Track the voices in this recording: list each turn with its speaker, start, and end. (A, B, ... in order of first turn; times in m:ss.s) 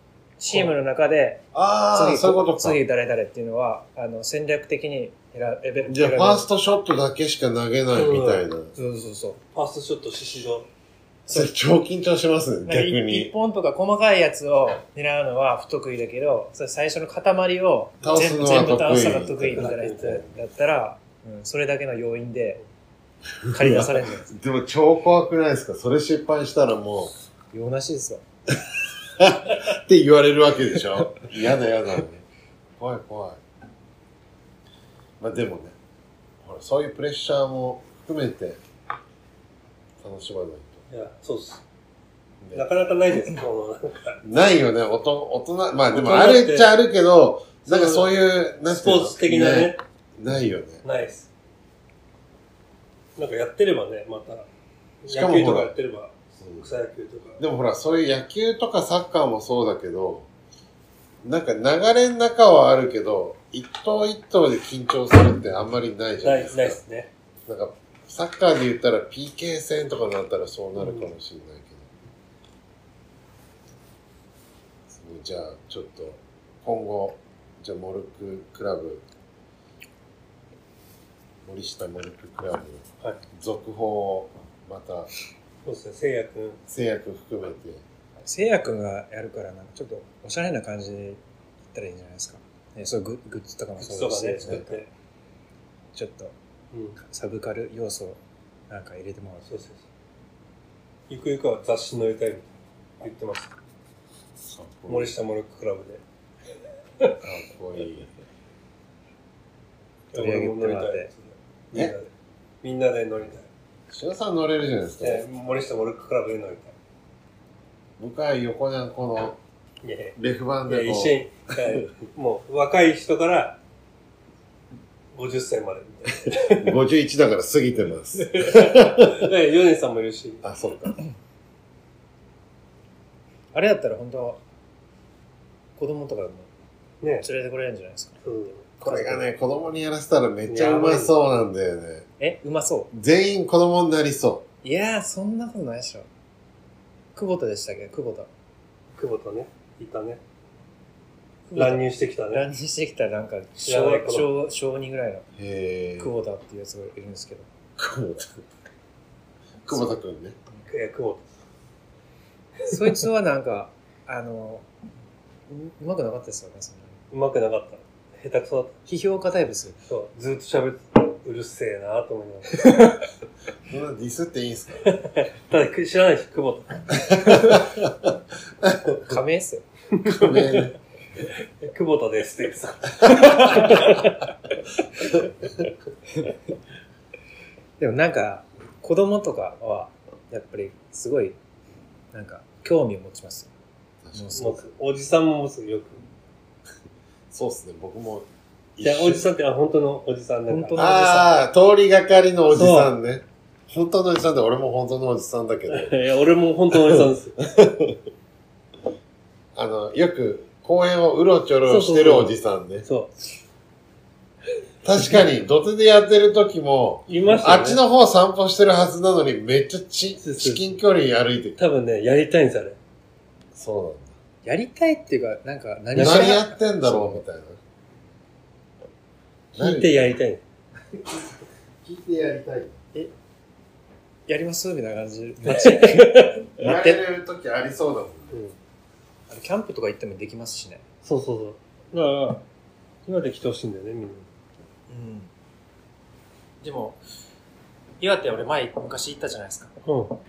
0:00.4-0:06.5 A
0:01.5-0:02.8 B
0:05.9-0:08.7 B
0:07.9-0:08.4 C
0:08.7-0:09.4 A
0:09.5-0:10.7 C
0:11.3-0:11.5 A
0:11.3-0:13.3 B
0:12.6-0:22.6 A
0:18.0-0:20.3 B
0:19.6-0:20.2 C
0:23.4-0:27.1 B
0:23.5-0:24.3 A
0:27.5-0:28.2 A
0:28.5-0:32.2 B
0:32.8-0:33.4 B
0:35.2-0:35.7 B
0:36.4-0:38.6 B
0:40.0-0:40.8 B
0:40.9-0:41.6 C
0:42.5-0:44.2 C
0:44.2-0:50.8 B
0:45.9-0:46.7 C
0:47.6-0:48.1 C
0:48.7-0:49.8 C
0:50.8-0:51.3 C
0:53.2-0:54.5 C
0:55.0-0:57.4 C
0:55.1-0:55.7 B
0:57.4-1:00.3 B
1:01.2-1:06.8 B
1:06.2-1:07.1 C
1:07.5-1:11.9 B
1:14.9-1:19.0 B
1:21.4-1:25.1 B
1:25.6-1:26.6 C
1:26.7-1:27.8 B
1:28.2-1:31.2 A
1:31.7-1:34.8 A
1:33.8-1:34.9 C
1:35.9-1:36.3 A
1:36.7-1:37.0 C
1:37.0-1:38.2 A
1:38.7-1:39.6 A
1:39.4-1:39.9 C
1:41.1-1:42.5 C
1:43.0-1:43.5 C
1:44.5-1:45.1 B
1:44.9-1:46.0 C
1:47.2-1:48.1 B
1:50.1-1:52.1 C
1:50.1-1:51.1 A
1:52.6-1:53.5 C
1:53.9-1:55.3 B
1:55.0-1:56.7 C
1:58.0-1:59.4 B
1:59.8-2:03.6 C
2:00.2-2:01.2 B
2:05.1-2:06.8 C
2:06.5-2:09.3 B
2:08.2-2:10.4 C
2:10.4-2:11.0 B
2:13.5-2:14.4 A
2:15.8-2:16.5 A
2:17.0-2:17.3 C
2:17.2-2:18.3 A
2:18.2-2:18.7 C
2:18.8-2:19.3 A
2:18.8-2:22.1 B
2:20.5-2:21.1 C
2:22.2-2:22.9 A
2:22.9-2:24.4 B
2:24.6-2:26.1 A
2:27.1-2:28.3 A
2:29.0-2:30.2 C
2:31.5-2:35.3 A
2:31.6-2:32.4 C
2:33.6-2:34.3 C
2:35.4-2:36.1 B
2:36.0-2:37.5 A
2:37.8-2:38.4 B
2:39.6-2:40.3 B
2:40.7-2:41.2 C
2:42.7-2:44.6 A
2:42.7-2:43.0 C
2:45.5-2:47.0 A
2:47.1-2:48.8 C
2:48.9-2:49.8 A
2:49.9-2:52.8 C
2:52.6-2:53.0 A
2:53.7-2:54.9 B
2:54.8-2:57.4 C
2:56.9-2:59.2 B
2:59.1-2:59.6 A
2:59.9-3:04.2 C
3:00.0-3:00.7 B
3:03.0-3:03.3 B
3:05.0-3:05.3 B
3:07.8-3:11.4 A
3:12.1-3:13.5 A
3:14.0-3:14.4 B
3:14.1-3:14.6 A
3:14.3-3:16.0 C
3:17.3-3:19.3 B
3:18.8-3:20.8 C
3:20.5-3:21.3 A
3:20.8-3:26.0 B
3:22.5-3:22.9 C
3:25.7-3:27.4 C
3:26.7-3:28.0 B
3:29.6-3:32.9 B
3:31.7-3:33.1 C
3:34.8-3:41.6 B
3:37.1-3:37.8 C
3:40.2-3:40.7 C
3:41.6-3:42.8 C
3:43.5-3:44.1 B
3:44.4-3:47.2 A
3:46.0-3:47.6 B
3:46.0-3:46.3 C
3:49.6-3:50.1 B
3:49.6-3:50.4 C
3:51.8-3:52.8 B
3:54.3-3:57.0 A
3:55.4-3:56.5 C
3:56.6-3:58.4 B
3:59.3-4:00.8 A
4:01.0-4:02.4 C
4:03.0-4:04.3 C
4:04.9-4:05.3 A
4:06.6-4:07.0 A
4:08.0-4:09.7 A
4:09.8-4:10.2 C